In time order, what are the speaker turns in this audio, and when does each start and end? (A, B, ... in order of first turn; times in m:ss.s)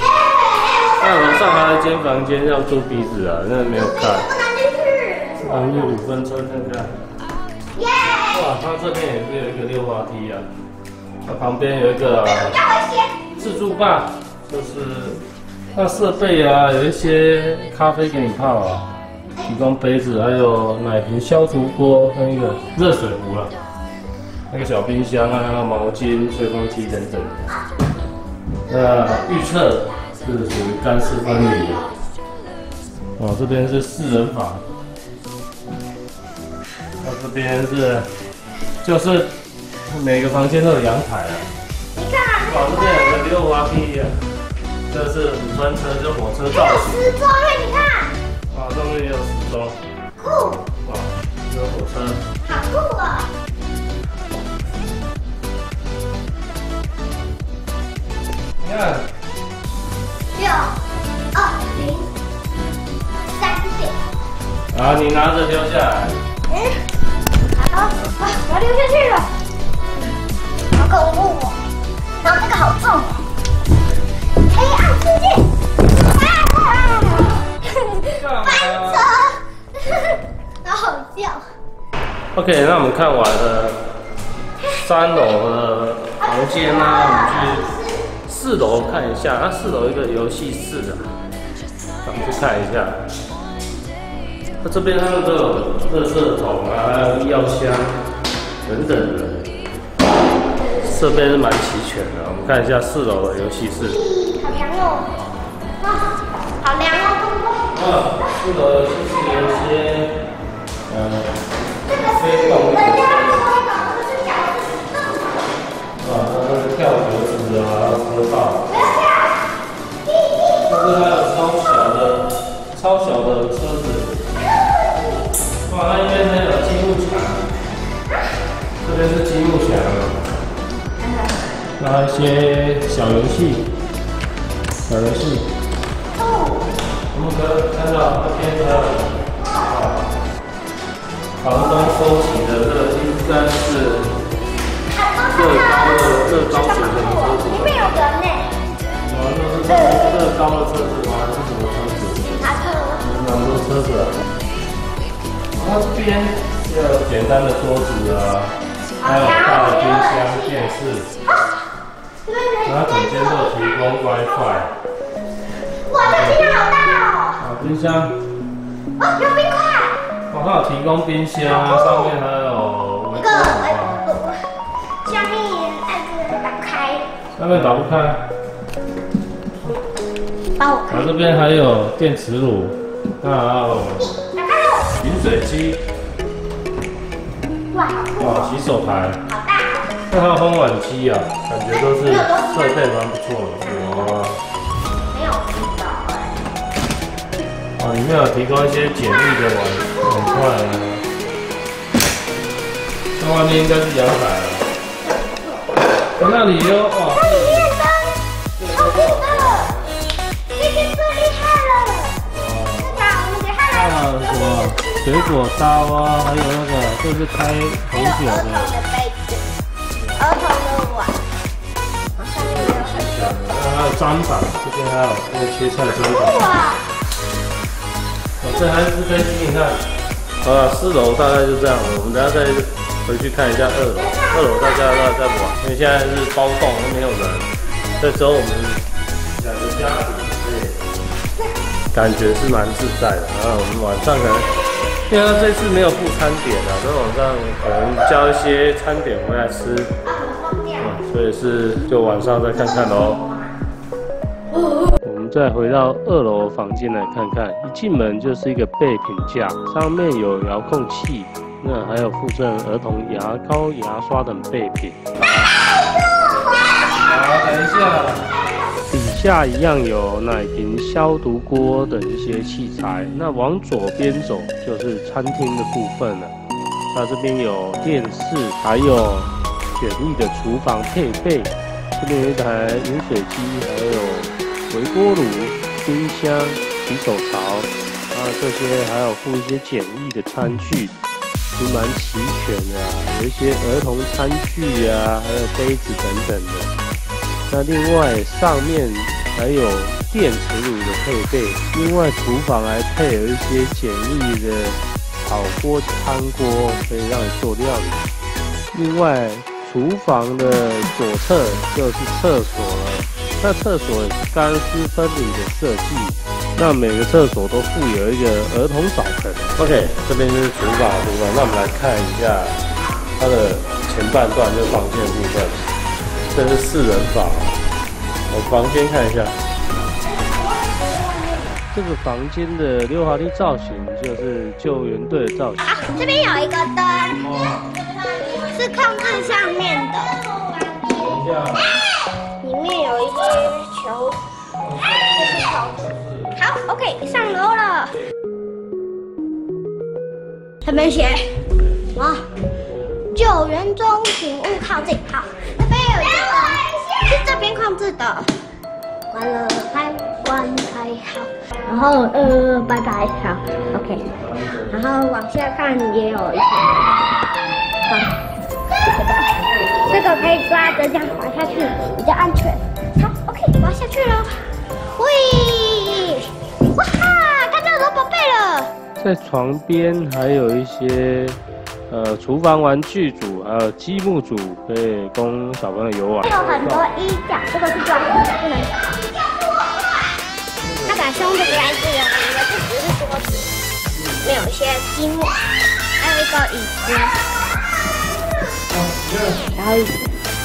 0:01.0-0:04.3 A
0:04.0-0:05.9 B
0:05.4-0:06.9 A
0:07.7-0:08.4 B
0:08.3-0:10.4 A
0:11.2-0:12.6 A
0:12.4-0:13.3 B
0:13.4-0:23.5 A
0:24.5-0:27.5 A
0:28.7-0:31.9 A
0:33.2-0:34.6 A
0:37.0-0:38.1 A
0:38.8-0:39.3 A
0:39.9-0:41.5 A
0:41.9-0:43.2 B
0:42.4-0:44.1 A
0:44.9-0:47.1 A
0:46.5-0:48.1 B
0:48.5-0:49.8 A
0:50.2-0:50.6 B
0:50.8-0:52.2 A
0:52.4-0:53.3 B
0:58.6-0:59.1 A
1:00.3-1:00.8 B
1:01.3-1:02.1 B
1:03.3-1:04.0 B
1:04.7-1:06.2 A
1:06.5-1:06.8 B
1:07.5-1:09.3 B
1:10.7-1:11.6 B
1:12.2-1:13.3 B
1:14.4-1:15.5 B
1:16.0-1:21.4 B
1:18.1-1:19.1 A
1:22.3-1:23.8 A
1:24.6-1:27.7 A
1:26.2-1:28.0 B
1:28.2-1:31.1 A
1:32.0-1:33.0 A
1:34.6-1:38.0 A
1:38.6-1:39.5 A
1:40.8-1:44.0 A
1:43.8-1:45.1 B
1:45.8-1:47.8 B
1:47.7-1:50.2 A
1:50.9-1:51.3 A
1:51.9-1:53.5 A
1:51.9-1:55.4 B
1:56.0-1:58.7 A
1:58.6-1:59.5 B
2:00.0-2:00.7 B
2:00.6-2:04.2 A
2:05.6-2:07.5 A
2:08.8-2:10.2 A
2:11.0-2:11.3 B
2:11.8-2:13.7 A
2:14.9-2:15.5 A
2:16.1-2:16.7 B
2:17.1-2:20.0 A
2:19.4-2:19.7 B
2:21.4-2:24.1 A
2:24.9-2:28.6 B
2:25.2-2:27.9 A
2:29.1-2:32.4 A
2:29.7-2:30.1 B
2:32.2-2:33.0 B
2:33.0-2:34.1 A
2:35.5-2:41.1 A
2:39.0-2:40.7 B
2:42.2-2:43.6 B
2:42.6-2:44.7 A
2:45.8-2:47.4 B
2:46.0-2:46.4 A
2:47.4-2:48.1 A
2:49.0-2:50.0 B
2:50.3-2:54.0 A
2:51.4-2:52.1 B
2:53.1-2:54.4 B
2:55.0-2:57.1 B
2:57.4-2:58.2 A
3:00.6-3:01.1 B
3:00.9-3:04.1 A
3:04.0-3:05.0 B
3:05.0-3:05.8 A
3:07.7-3:08.6 B
3:08.2-3:09.2 A
3:09.2-3:09.9 B
3:10.1-3:14.4 A
3:12.0-3:12.9 B
3:13.6-3:14.2 B
3:15.1-3:16.4 B
3:17.8-3:21.0 A
3:23.1-3:24.7 A
3:25.0-3:25.8 B
3:26.1-3:27.7 A
3:27.1-3:29.7 B
3:28.6-3:30.0 A
3:30.5-3:32.2 B
3:32.2-3:33.1 A
3:32.9-3:35.4 B
3:33.7-3:38.7 A
3:37.9-3:39.5 B
3:40.2-3:41.2 B
3:42.2-3:43.4 B
3:42.3-3:46.4 A
3:45.9-3:46.8 B
3:48.4-3:49.8 A
3:50.4-3:58.8 A
3:54.0-3:55.2 B
3:59.3-4:00.8 A
4:01.9-4:04.5 A
4:05.1-4:09.9 A
4:10.0-4:11.0 B
4:10.8-4:13.3 A
4:15.0-4:25.0 A
4:26.9-4:28.3 A
4:28.9-4:36.3 A
4:36.9-4:50.9 A
4:51.6-4:56.7 A
4:57.5-5:08.0 A
5:08.7-5:22.6 A
5:23.2-5:25.6 A
5:26.3-5:27.6 A
5:28.3-5:29.4 A
5:30.0-5:31.6 B
5:31.7-5:35.8 A
5:35.6-5:37.2 B
5:37.1-5:37.7 A
5:38.1-5:41.1 B
5:40.9-5:41.7 A
5:42.4-5:44.2 B
5:44.6-5:46.4 A
5:45.0-5:45.8 B
5:46.3-5:48.0 B
5:50.6-5:51.4 B
5:51.9-5:52.3 B
5:53.1-5:58.3 B
5:59.1-6:04.0 B
6:03.4-6:04.8 A
6:04.7-6:07.0 B
6:07.8-6:08.2 B
6:08.8-6:09.3 B
6:09.4-6:11.9 A
6:09.9-6:18.7 B
6:19.0-6:21.4 A
6:21.9-6:26.9 A
6:26.2-6:29.6 B
6:30.6-6:31.9 A
6:30.8-6:33.5 B
6:34.0-6:34.3 A
6:34.2-6:37.2 B
6:38.7-6:39.4 A
6:39.4-6:40.1 B